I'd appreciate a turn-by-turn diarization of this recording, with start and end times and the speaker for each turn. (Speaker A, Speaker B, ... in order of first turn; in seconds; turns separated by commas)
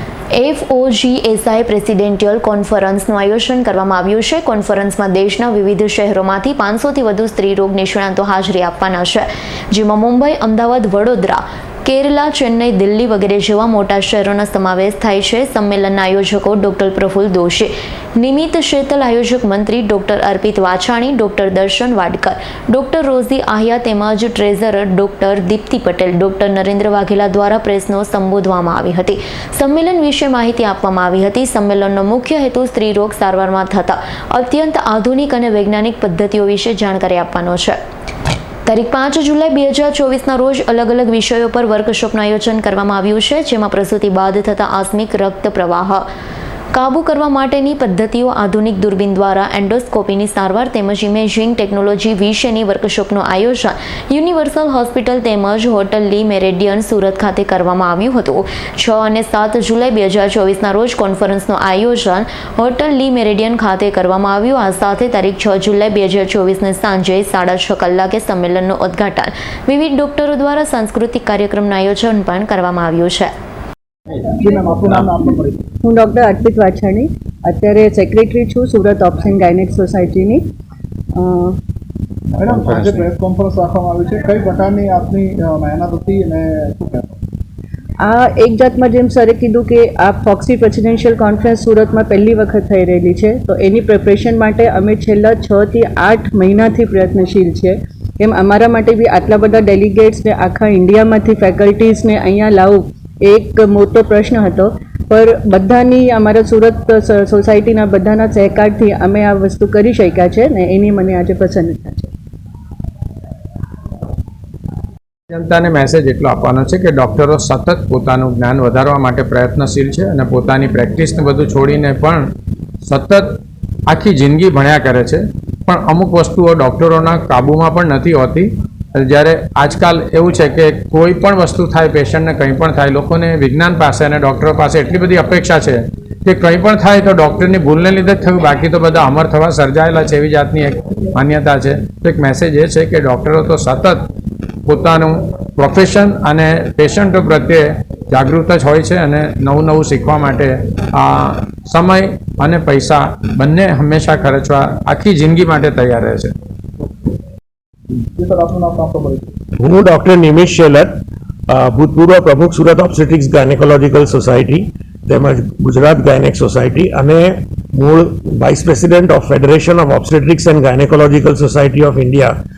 Speaker A: 0.3-37.8, Speaker A: 38.6-46.0, Speaker A: 46.7-73.3, Speaker B: 74.2-75.6, Speaker C: 75.8-80.4, Speaker C: 81.1-81.5, Speaker D: 82.4-83.0, Speaker B: 82.4-87.1, Speaker C: 88.0-112.1, Speaker D: 115.3-122.3, Speaker D: 122.8-144.1, Speaker D: 144.7-156.3, Speaker B: 158.0-159.3, Speaker E: 159.6-172.4